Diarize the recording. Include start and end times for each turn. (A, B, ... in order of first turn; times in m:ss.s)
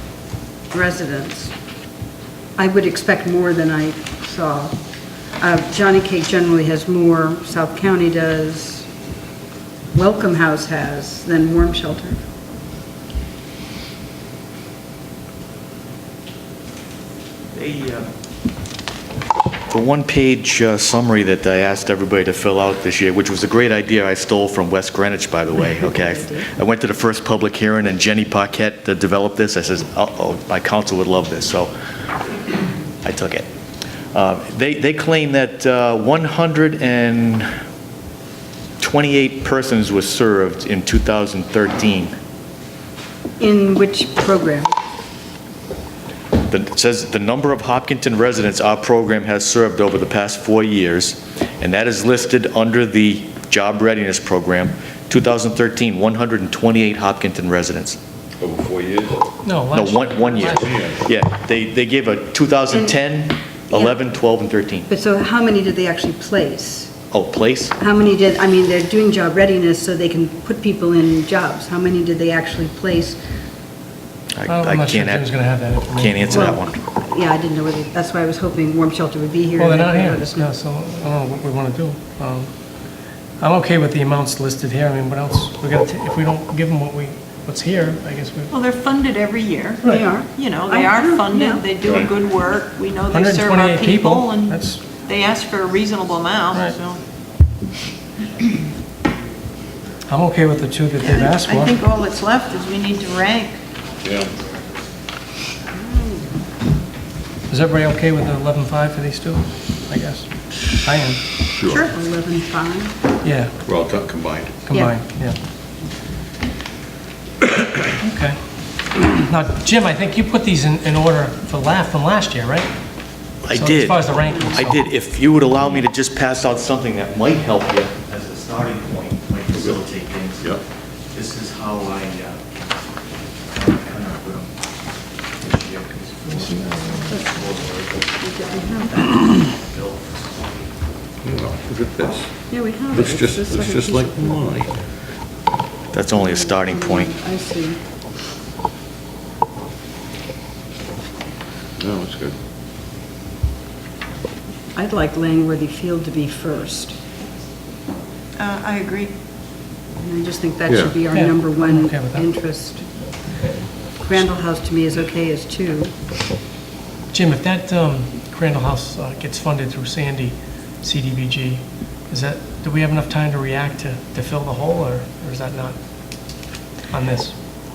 0:00.7-0:01.5 A
0:02.6-0:04.8 A
0:05.4-0:08.9 A
0:09.9-0:12.2 A
0:17.5-0:18.1 B
0:19.7-0:31.7 B
0:25.9-0:26.5 A
0:33.0-0:33.5 B
0:34.1-0:37.5 B
0:38.8-0:42.1 B
0:43.4-0:44.7 A
0:46.5-0:58.0 B
0:58.4-0:59.3 C
0:59.4-1:00.8 D
0:59.7-1:04.9 B
1:00.6-1:01.0 C
1:03.7-1:04.0 A
1:04.9-1:06.9 A
1:07.1-1:07.7 B
1:07.8-1:13.2 A
1:14.3-1:15.3 B
1:14.5-1:16.5 D
1:16.0-1:16.8 B
1:16.3-1:20.5 A
1:19.6-1:22.5 D
1:23.4-1:28.5 D
1:28.5-1:37.0 E
1:29.8-1:31.6 A
1:33.1-1:34.9 D
1:40.1-1:41.8 D
1:41.0-1:43.6 E
1:44.0-1:44.3 C
1:45.7-1:46.4 A
1:47.5-1:51.3 D
1:51.4-1:51.8 C
1:51.7-1:53.0 A
1:53.2-1:53.6 D
1:53.6-1:54.6 C
1:54.6-1:55.4 D
1:58.0-1:58.4 D
1:58.9-2:02.7 D
2:03.4-2:10.6 B
2:03.5-2:04.8 D
2:11.1-2:12.6 B
2:13.5-2:14.5 B
2:15.4-2:20.4 B
2:16.3-2:17.2 D
2:18.2-2:19.0 A
2:21.2-2:22.3 C
2:22.5-2:24.4 A
2:22.9-2:24.7 C
2:25.9-2:27.1 B
2:26.2-2:27.8 A
2:31.8-2:32.3 C
2:34.7-2:37.0 A
2:38.4-2:39.1 E
2:40.0-2:42.9 A
2:40.7-2:41.0 C
2:41.0-2:42.3 D
2:44.0-2:45.9 A
2:47.1-2:55.8 D
2:56.9-2:57.3 D